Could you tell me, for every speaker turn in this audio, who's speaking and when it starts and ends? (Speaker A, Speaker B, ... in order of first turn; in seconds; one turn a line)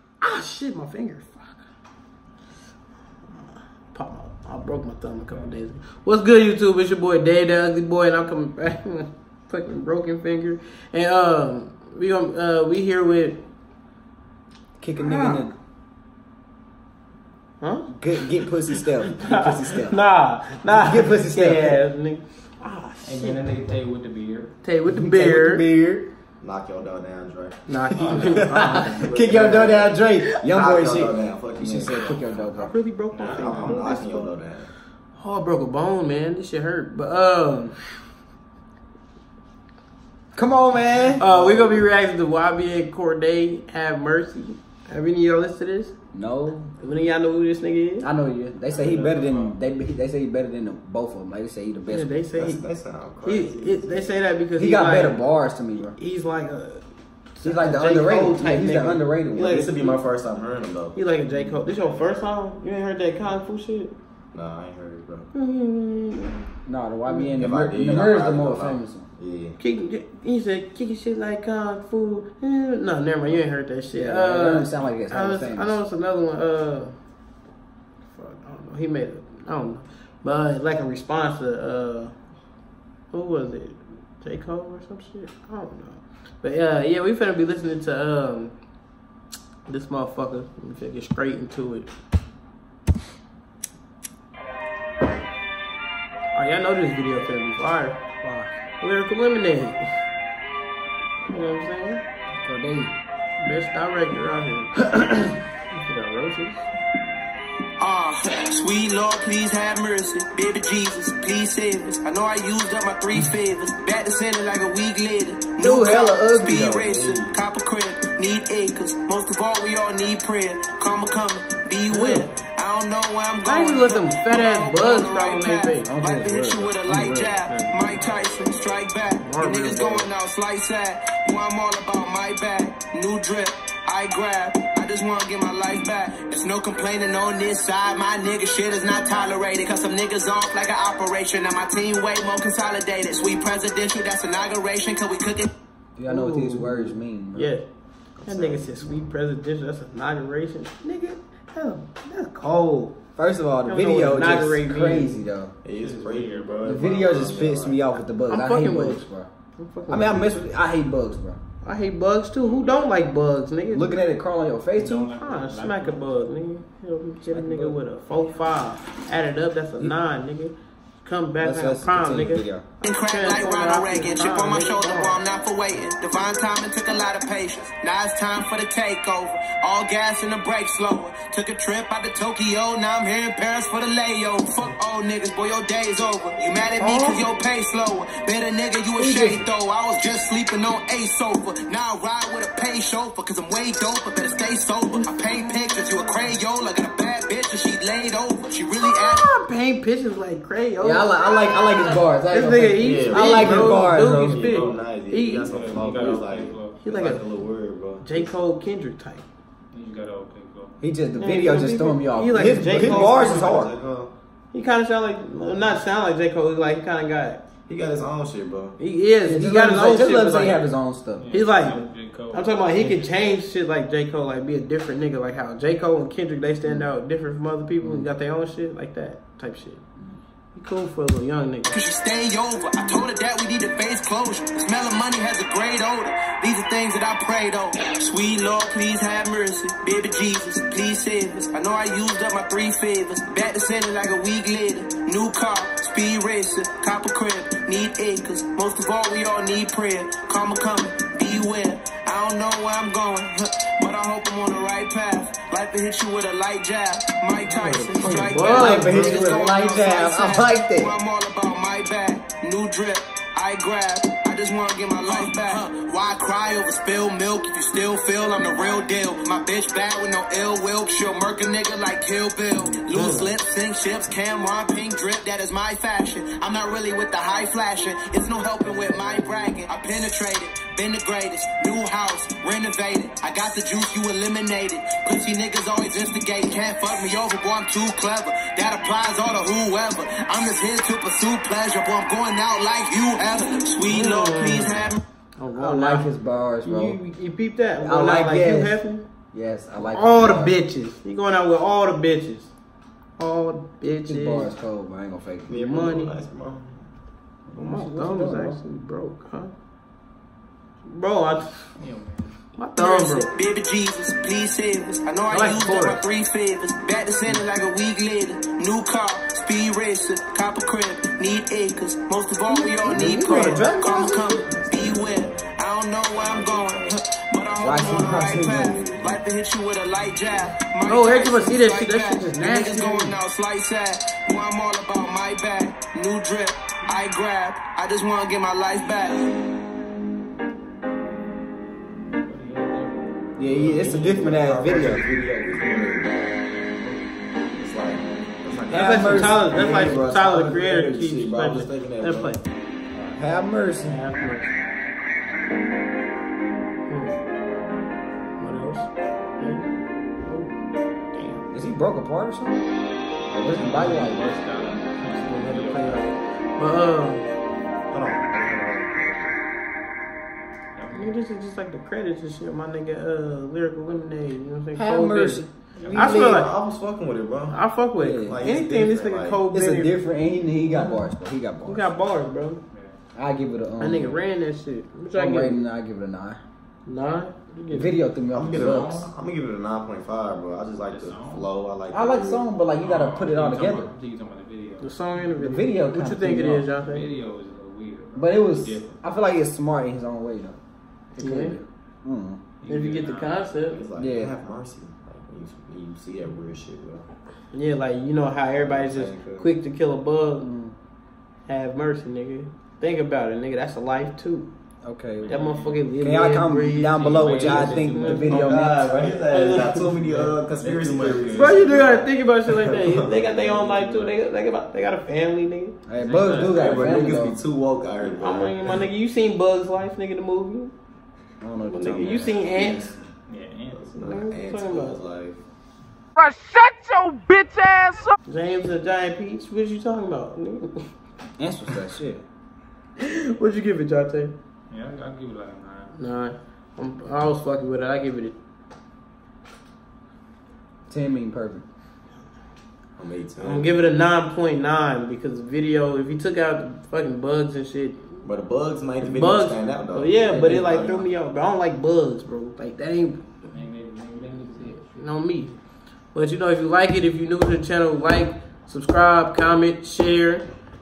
Speaker A: 0.2-1.7
Speaker A: 3.3-13.4
Speaker B: 5.3-5.6
Speaker C: 14.8-15.6
Speaker A: 15.0-15.5
Speaker A: 17.6-23.4
Speaker C: 17.9-20.0
Speaker C: 20.7-21.8
Speaker B: 23.0-24.5
Speaker A: 24.6-25.6
Speaker C: 24.9-26.1
Speaker D: 26.4-32.2
Speaker A: 27.7-29.5
Speaker B: 28.0-28.5
Speaker C: 28.3-32.8
Speaker A: 32.5-34.3
Speaker B: 33.1-33.8
Speaker D: 33.2-34.7
Speaker A: 35.2-37.8
Speaker C: 40.3-41.4
Speaker A: 41.2-46.0
Speaker C: 46.1-46.7
Speaker A: 46.8-48.1
Speaker C: 48.0-52.1
Speaker A: 51.9-52.7
Speaker D: 52.3-54.1
Speaker A: 53.2-55.2
Speaker C: 54.6-56.0
Speaker A: 56.0-60.0
Speaker C: 57.4-59.7
Speaker D: 59.4-62.0
Speaker A: 61.0-64.0
Speaker D: 64.3-65.3
Speaker A: 65.3-66.4
Speaker C: 66.7-69.1
Speaker D: 67.2-69.6
Speaker A: 69.6-76.9
Speaker C: 73.9-75.8
Speaker A: 78.1-82.1
Speaker A: 83.1-88.5
Speaker A: 89.7-91.9
Speaker A: 96.3-98.0
Speaker C: 98.2-98.5
Speaker A: 98.8-99.9
Speaker A: 101.3-102.0
Speaker C: 102.4-103.0
Speaker A: 103.4-106.7
Speaker E: 107.8-145.5
Speaker C: 115.6-117.1
Speaker D: 116.8-117.3
Speaker A: 121.9-122.3
Speaker A: 123.5-125.9
Speaker C: 125.8-126.8
Speaker A: 126.9-127.8
Speaker A: 129.1-130.1
Speaker C: 146.0-147.5
Speaker A: 146.1-147.7
Speaker D: 148.2-149.1
Speaker A: 148.2-153.0
Speaker C: 153.2-155.6
Speaker A: 153.7-155.2
Speaker D: 155.6-157.9
Speaker B: 155.7-156.8
Speaker C: 156.6-159.3
Speaker A: 158.3-160.3
Speaker C: 159.9-161.4
Speaker A: 161.6-164.0
Speaker B: 162.4-163.1
Speaker C: 163.7-165.1
Speaker B: 164.8-166.3
Speaker A: 165.2-175.2
Speaker C: 167.3-167.8
Speaker C: 171.4-172.7
Speaker E: 172.8-199.3
Speaker A: 186.8-187.2
Speaker C: 189.0-189.5
Speaker A: 195.2-195.6
Speaker A: 199.0-206.2
Speaker C: 200.8-204.6
Speaker D: 202.8-208.3
Speaker B: 205.4-206.8
Speaker A: 206.8-207.3
Speaker A: 208.0-209.3
Speaker B: 209.7-210.8
Speaker C: 210.8-213.7
Speaker A: 211.2-213.6
Speaker D: 212.3-214.1
Speaker A: 214.5-217.4
Speaker D: 217.7-218.8
Speaker A: 218.8-220.7
Speaker C: 219.2-221.3
Speaker B: 221.2-223.1
Speaker A: 221.3-229.8
Speaker C: 227.8-228.1
Speaker A: 230.5-231.8
Speaker E: 231.7-295.0
Speaker A: 257.5-259.2
Speaker C: 258.5-260.9
Speaker A: 272.9-273.4
Speaker A: 293.9-294.8
Speaker A: 295.4-296.1
Speaker C: 295.5-297.0
Speaker A: 296.6-299.1
Speaker C: 297.8-298.8
Speaker C: 299.3-300.6
Speaker A: 299.9-302.5
Speaker A: 303.2-304.5
Speaker C: 304.1-305.6
Speaker D: 305.5-306.9
Speaker A: 305.5-306.2
Speaker C: 307.5-308.6
Speaker A: 307.5-309.5
Speaker A: 310.8-311.7
Speaker B: 311.8-312.4
Speaker A: 312.6-313.3
Speaker E: 312.8-339.3
Speaker A: 315.3-316.0
Speaker A: 322.5-323.8
Speaker C: 322.9-324.2
Speaker D: 323.6-329.2
Speaker C: 327.6-328.8
Speaker A: 330.9-333.2
Speaker B: 342.1-343.7
Speaker C: 343.4-345.0
Speaker D: 343.5-346.4
Speaker B: 346.4-347.0
Speaker D: 347.5-352.4
Speaker C: 348.7-350.9
Speaker A: 348.7-352.4
Speaker C: 352.9-354.0
Speaker A: 353.8-354.5
Speaker A: 356.9-357.2
Speaker A: 358.4-359.7
Speaker A: 360.2-360.5
Speaker A: 361.1-361.5
Speaker C: 361.5-362.6
Speaker C: 363.3-364.2
Speaker B: 363.4-366.2
Speaker A: 365.0-367.3
Speaker D: 367.9-369.4
Speaker B: 370.8-371.2
Speaker A: 370.9-376.5
Speaker C: 374.7-376.5
Speaker B: 375.8-376.1
Speaker D: 375.9-377.6
Speaker A: 377.5-380.0
Speaker C: 378.0-378.4
Speaker D: 378.3-379.4
Speaker C: 379.5-381.9
Speaker A: 380.6-381.1
Speaker A: 381.7-382.6
Speaker B: 382.7-383.0
Speaker C: 383.1-384.2
Speaker A: 383.8-385.6
Speaker C: 385.1-386.4
Speaker A: 386.9-388.0
Speaker C: 387.7-389.1
Speaker D: 388.3-392.5
Speaker B: 390.8-391.5
Speaker C: 391.9-393.9
Speaker B: 392.8-394.9
Speaker A: 394.8-397.1
Speaker C: 395.4-396.7
Speaker B: 396.7-399.0
Speaker C: 398.1-400.6
Speaker C: 401.1-402.4
Speaker A: 401.2-401.6
Speaker B: 402.6-403.5
Speaker A: 402.7-403.9
Speaker D: 403.7-407.1
Speaker C: 404.0-404.3
Speaker A: 407.5-410.5
Speaker D: 408.6-409.5
Speaker C: 410.4-410.8
Speaker A: 411.5-414.5
Speaker C: 414.8-415.4
Speaker B: 415.2-415.8
Speaker A: 415.3-418.5
Speaker C: 415.9-419.1
Speaker B: 416.9-418.6
Speaker D: 418.2-423.3
Speaker A: 419.0-419.9
Speaker B: 419.8-422.1
Speaker A: 421.3-425.8
Speaker B: 423.3-424.1
Speaker C: 425.9-427.4
Speaker B: 426.0-426.7
Speaker D: 426.3-428.8
Speaker A: 426.5-427.0
Speaker A: 428.0-430.7
Speaker C: 431.4-432.4
Speaker A: 431.6-432.9
Speaker B: 433.3-433.8
Speaker D: 433.7-435.4
Speaker A: 434.0-435.0
Speaker E: 437.2-437.9
Speaker A: 438.3-440.9
Speaker C: 441.4-442.2
Speaker A: 443.0-444.4
Speaker B: 444.7-445.9
Speaker A: 445.9-448.4
Speaker C: 450.9-451.6
Speaker D: 453.0-453.7
Speaker A: 453.4-458.2
Speaker D: 458.2-461.1
Speaker A: 459.0-463.5
Speaker B: 463.5-464.8
Speaker A: 464.5-465.6
Speaker A: 466.1-470.5